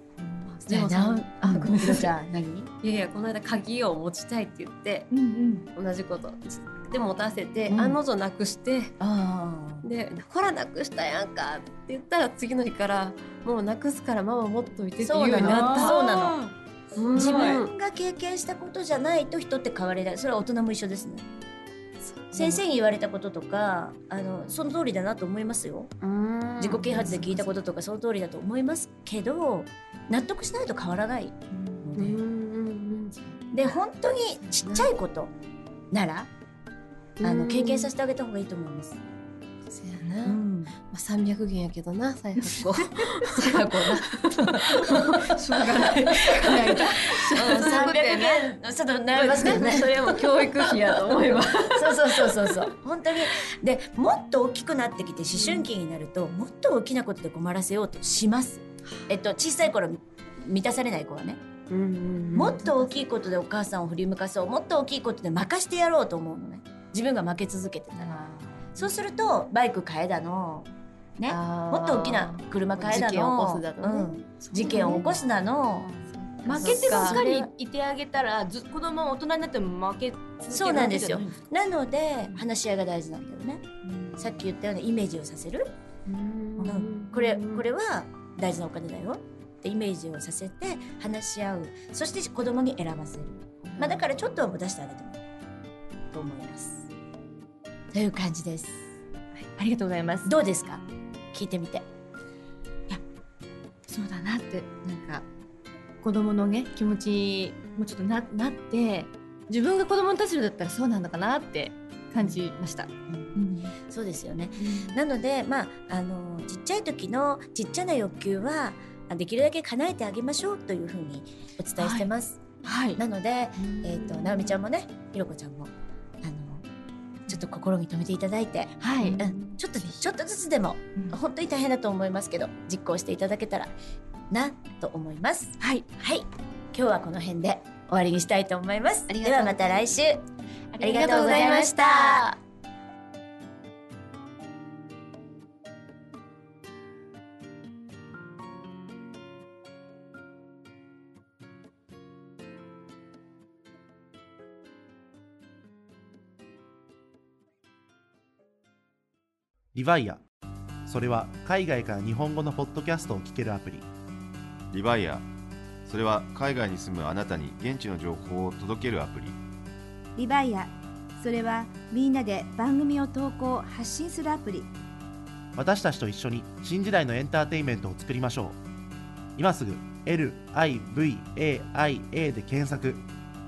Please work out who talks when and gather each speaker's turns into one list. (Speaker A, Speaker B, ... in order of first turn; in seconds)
Speaker A: 0.2-0.6, 1.4-1.7, 5.1-5.7, 15.4-16.5, 17.2-17.6, 26.9-27.5, 31.5-31.8, 39.7-40.1, 42.7-43.1, 46.4-48.4, 49.4-49.8, 68.0-68.7, 72.8-75.1, 76.0-81.3, 83.8-84.3, 86.6-87.0, 93.8-94.0, 99.4-100.3, 103.9-105.2, 106.0-113.7, 114.6-115.0, 121.8-122.1, 122.6-123.0, 123.6-124.4, 128.8-129.5, 135.6-135.9, 139.1-139.8, 140.8-142.3
Speaker B: 0.6-2.1, 2.8-5.1, 5.8-8.9, 9.8-16.2, 17.0-17.7, 22.1-22.6, 26.0-27.2, 32.0-33.2, 37.2-37.9, 40.0-40.4, 40.9-48.4, 49.1-52.7, 61.7-62.6, 71.3-72.3, 72.9-73.7, 74.5-75.1, 76.5-77.2, 86.1-87.6
Speaker C: 0.7-2.7, 7.7-8.0, 9.0-9.9, 15.0-16.4, 17.1-21.2, 22.3-25.9, 26.6-32.2, 33.5-35.3, 35.9-36.3, 37.2-39.0, 40.2-40.8, 43.3-51.0, 51.7-61.4, 62.3-75.9, 76.4-77.5, 80.5-83.6, 84.2-85.7, 86.6-95.2, 96.1-96.9, 97.9-98.9, 100.2-101.8, 112.2-112.5, 113.1-122.4, 123.0-125.7, 126.2-126.7, 127.3-133.7, 134.3-140.2, 140.8-142.4
Speaker D: 159.7-160.2, 160.9-163.9, 175.6-178.6, 179.4-183.1
Speaker E: 164.7-165.3, 165.9-169.4
Speaker F: 170.2-174.7